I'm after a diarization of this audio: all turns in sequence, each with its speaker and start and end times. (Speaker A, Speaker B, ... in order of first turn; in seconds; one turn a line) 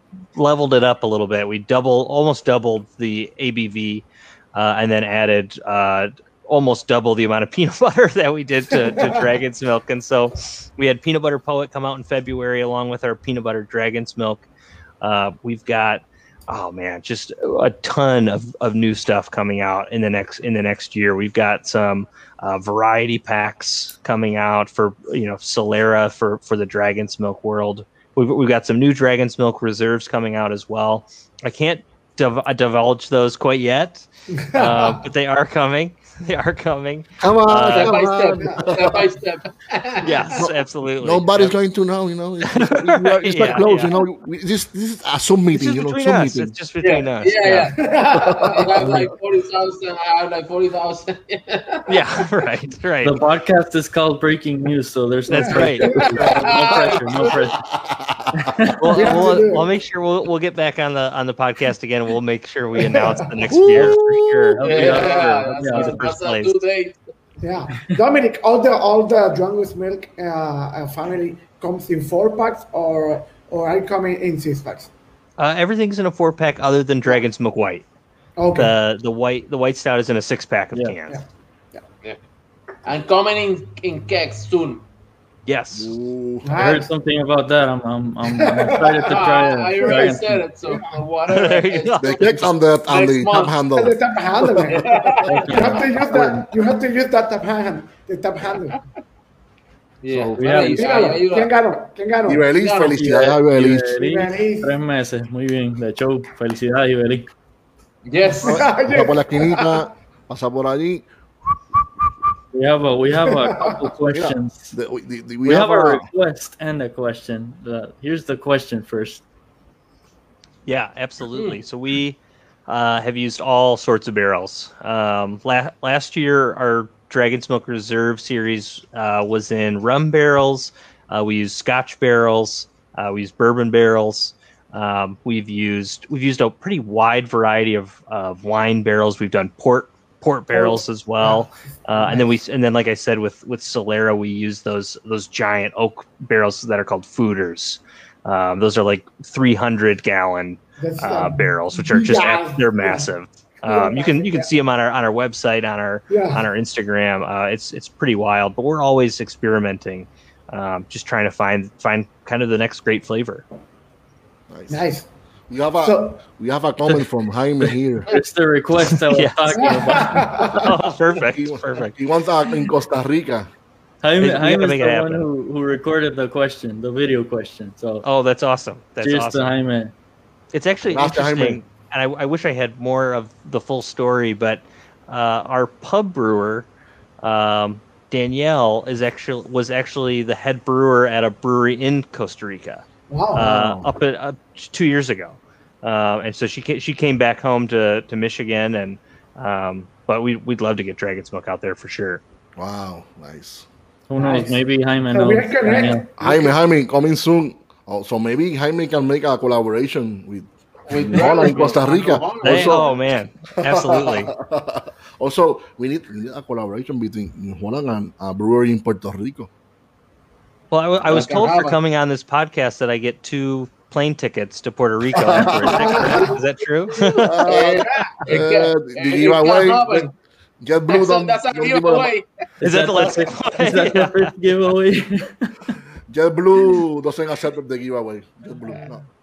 Speaker A: 0.3-14.5
Speaker B: 8.9-9.2
Speaker A: 15.0-38.0
Speaker B: 34.4-35.0
Speaker C: 37.2-39.0
Speaker D: 37.6-40.2
Speaker A: 40.0-41.5
Speaker C: 41.0-46.5
Speaker A: 42.4-44.0
Speaker A: 45.5-47.7
Speaker D: 46.8-51.9
Speaker B: 47.8-48.7
Speaker C: 48.1-48.6
Speaker E: 48.8-49.1
Speaker A: 51.9-53.2
Speaker E: 53.0-57.6
Speaker B: 55.3-56.3
Speaker A: 55.3-55.9
Speaker C: 55.5-59.4
Speaker D: 56.1-57.3
Speaker E: 58.3-58.9
Speaker A: 58.8-66.5
Speaker B: 58.9-59.7
Speaker B: 62.9-63.3
Speaker C: 63.5-64.6
Speaker E: 64.5-66.0
Speaker D: 64.6-67.0
Speaker B: 67.4-74.9
Speaker A: 75.4-77.8
Speaker B: 78.4-78.8
Speaker A: 78.5-81.2
Speaker B: 81.1-81.8
Speaker D: 82.9-84.8
Speaker A: 85.5-85.9
Speaker C: 85.8-86.8
Speaker B: 86.4-86.9
Speaker E: 86.6-90.4
Speaker B: 88.3-91.0
Speaker D: 89.1-93.6
Speaker A: 91.3-92.5
Speaker C: 92.0-96.4
Speaker B: 93.7-98.8
Speaker D: 94.9-95.4
Speaker E: 95.3-96.2
Speaker D: 100.0-101.5
Speaker C: 100.1-100.7
Speaker E: 100.4-100.9
Speaker B: 100.8-102.5
Speaker C: 102.3-104.0
Speaker D: 102.5-103.1
Speaker E: 102.9-107.3
Speaker B: 104.0-104.8
Speaker D: 108.1-108.6
Speaker B: 108.4-109.8
Speaker C: 108.4-111.1
Speaker E: 112.5-114.8
Speaker B: 113.3-113.8
Speaker C: 114.1-116.0
Speaker E: 115.5-119.2
Speaker A: 120.7-163.4
Speaker D: 121.3-121.6
Speaker B: 140.5-142.4
Speaker B: 150.8-153.1
Speaker B: 153.6-154.5
Speaker B: 156.1-156.5
Speaker C: 164.5-164.9
Speaker B: 164.7-165.1
Speaker C: 165.5-168.1
Speaker B: 165.8-166.2
Speaker E: 168.1-170.3
Speaker A: 168.9-169.8
Speaker B: 169.6-170.6
Speaker C: 170.4-173.5
Speaker A: 170.5-172.0
Speaker E: 174.0-178.1
Speaker A: 174.2-175.2
Speaker A: 178.0-179.6
Speaker E: 179.0-179.9
Speaker A: 180.5-186.7
Speaker C: 180.9-181.6
Speaker A: 187.2-202.2
Speaker B: 193.1-193.6
Speaker C: 193.5-193.9
Speaker C: 202.6-203.7
Speaker E: 204.1-206.0
Speaker B: 204.2-206.6
Speaker C: 206.2-212.9
Speaker D: 210.9-212.9
Speaker A: 212.4-214.3
Speaker C: 213.6-219.5
Speaker A: 220.7-227.3
Speaker D: 221.1-221.8
Speaker C: 225.1-226.3
Speaker B: 225.6-226.4
Speaker D: 226.9-230.1
Speaker C: 227.2-230.1
Speaker B: 227.4-228.2
Speaker C: 230.6-232.1
Speaker D: 230.9-232.2
Speaker E: 232.6-235.8
Speaker A: 232.6-234.3
Speaker C: 236.1-239.0
Speaker B: 238.6-238.9